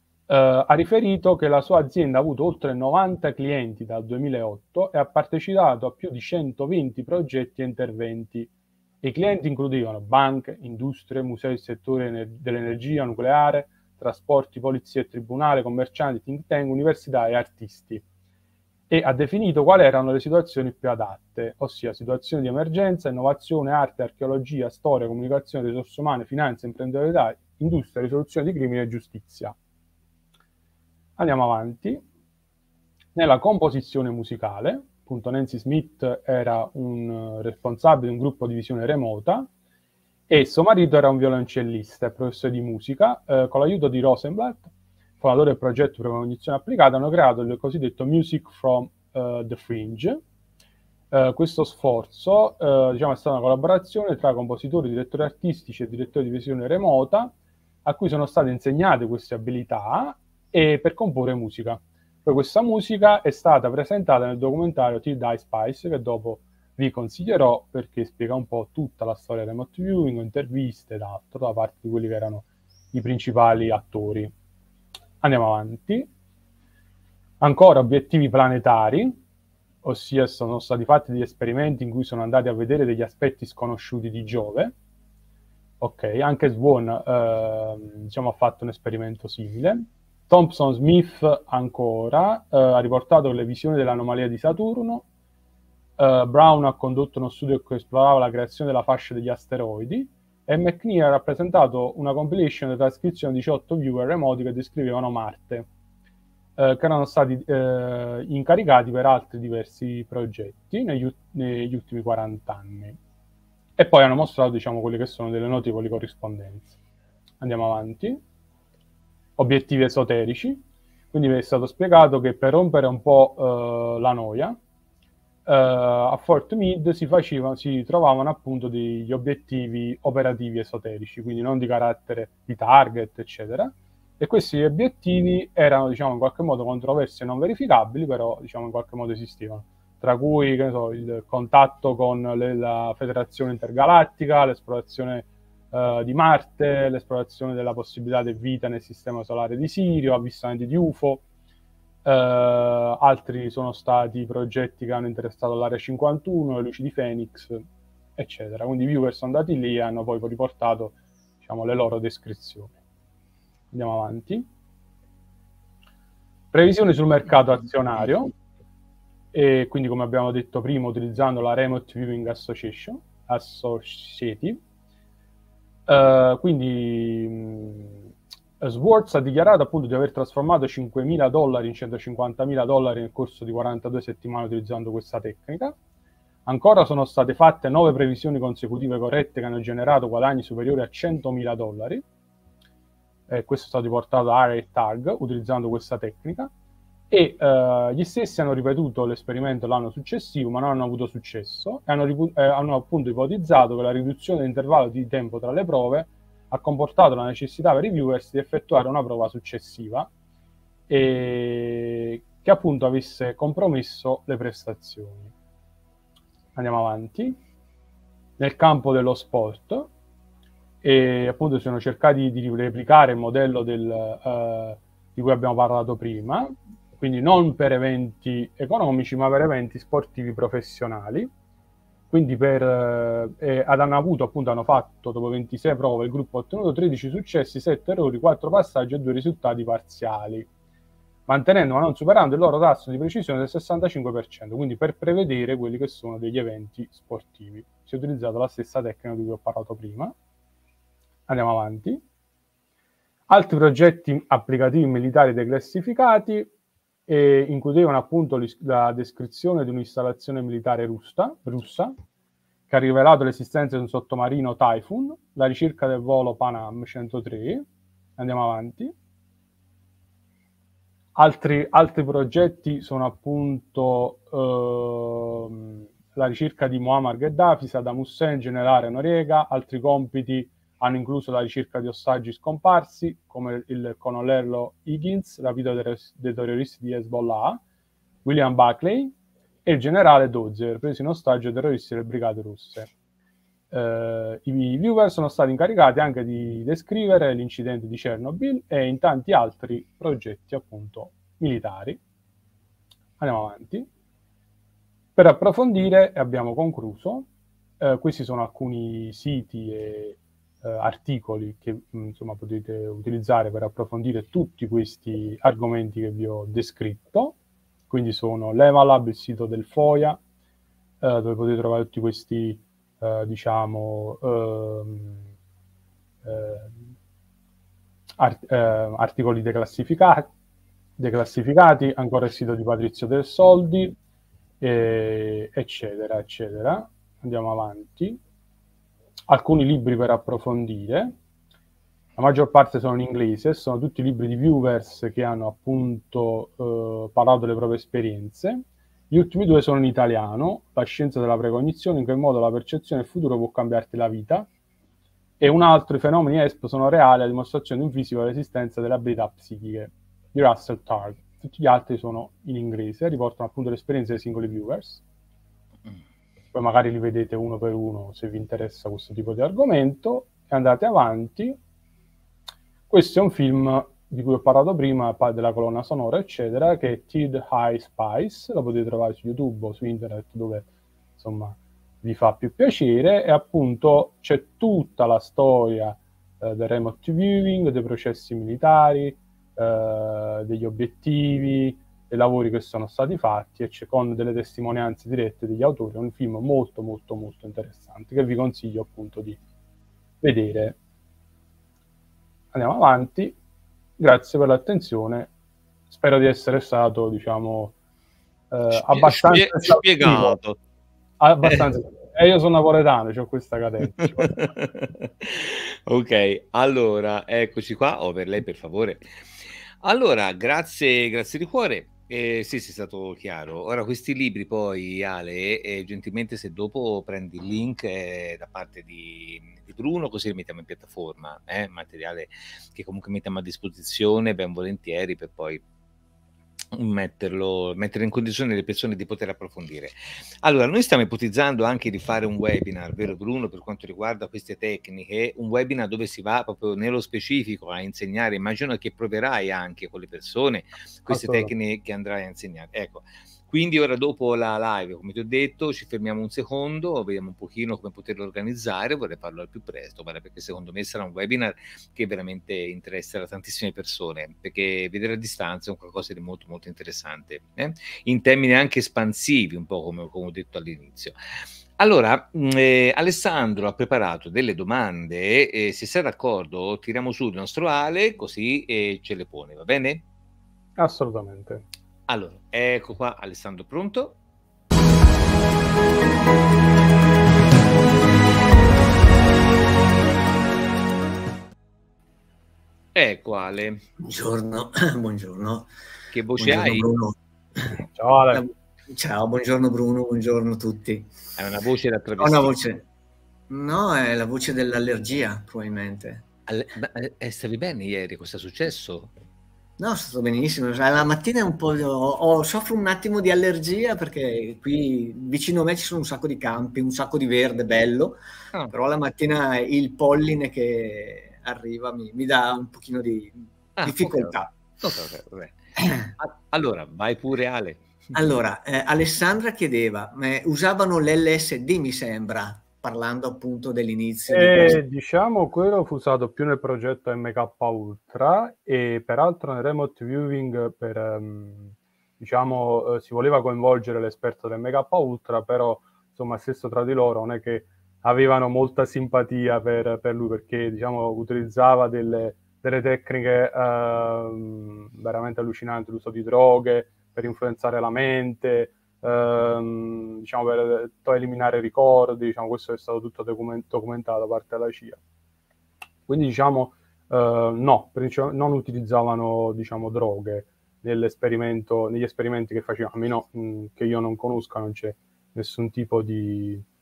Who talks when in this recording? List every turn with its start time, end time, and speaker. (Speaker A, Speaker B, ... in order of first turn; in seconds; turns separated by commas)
Speaker A: 0.3-8.5, Speaker A: 9.0-18.0, Speaker A: 18.9-29.6, Speaker A: 31.2-32.0, Speaker A: 33.1-39.5, Speaker A: 40.3-50.2, Speaker A: 51.1-57.3, Speaker A: 57.9-74.3, Speaker A: 75.2-76.1, Speaker A: 77.4-79.2, Speaker A: 79.8-84.7, Speaker A: 85.8-95.1, Speaker A: 96.0-105.7, Speaker A: 106.6-113.0, Speaker A: 113.8-116.8, Speaker A: 117.4-118.2, Speaker A: 119.4-124.6, Speaker A: 125.5-151.2, Speaker A: 152.0-157.6, Speaker A: 158.2-162.7, Speaker A: 163.7-164.5, Speaker A: 166.5-168.3, Speaker A: 169.3-174.6, Speaker A: 175.9-178.0, Speaker A: 178.6-185.8, Speaker A: 186.5-192.0, Speaker A: 193.3-196.5, Speaker A: 197.1-210.1, Speaker A: 210.9-215.3, Speaker A: 216.6-217.4, Speaker A: 218.4-219.9, Speaker A: 220.8-231.3, Speaker A: 232.1-240.5, Speaker A: 241.3-250.1, Speaker A: 251.3-252.0, Speaker A: 253.3-256.5, Speaker A: 257.1-261.9, Speaker A: 262.7-267.6, Speaker A: 268.2-268.9, Speaker A: 271.1-287.6, Speaker A: 288.2-292.9, Speaker A: 293.7-302.0, Speaker A: 303.2-303.9, Speaker A: 305.2-307.3, Speaker A: 307.8-317.4, Speaker A: 317.9-320.2, Speaker A: 321.0-325.2, Speaker A: 326.2-326.8, Speaker A: 328.2-330.3, Speaker A: 331.0-334.0, Speaker A: 334.6-338.2, Speaker A: 339.3-341.2, Speaker A: 342.2-354.5, Speaker A: 355.4-365.0, Speaker A: 366.5-371.6, Speaker A: 372.9-399.4, Speaker A: 400.2-400.8, Speaker A: 402.5-403.4, Speaker A: 404.0-405.3, Speaker A: 405.9-407.8, Speaker A: 408.5-410.4, Speaker B: 408.7-410.6, Speaker A: 411.2-414.5, Speaker B: 414.2-419.1, Speaker B: 419.8-435.6, Speaker B: 436.7-471.2, Speaker A: 451.1-451.5, Speaker B: 471.8-480.0, Speaker A: 480.8-481.6, Speaker B: 482.1-484.2, Speaker B: 492.9-493.9, Speaker C: 494.0-495.7, Speaker B: 496.1-496.9, Speaker C: 496.4-497.7, Speaker A: 497.8-498.4, Speaker C: 498.3-501.3, Speaker B: 501.4-502.6, Speaker C: 502.2-502.9, Speaker C: 503.5-506.3, Speaker B: 506.5-509.1, Speaker C: 509.8-518.2, Speaker C: 518.7-524.6, Speaker B: 523.8-525.6, Speaker C: 525.8-526.1, Speaker B: 526.2-528.2, Speaker C: 528.1-534.8, Speaker A: 534.3-565.0, Speaker A: 566.1-576.6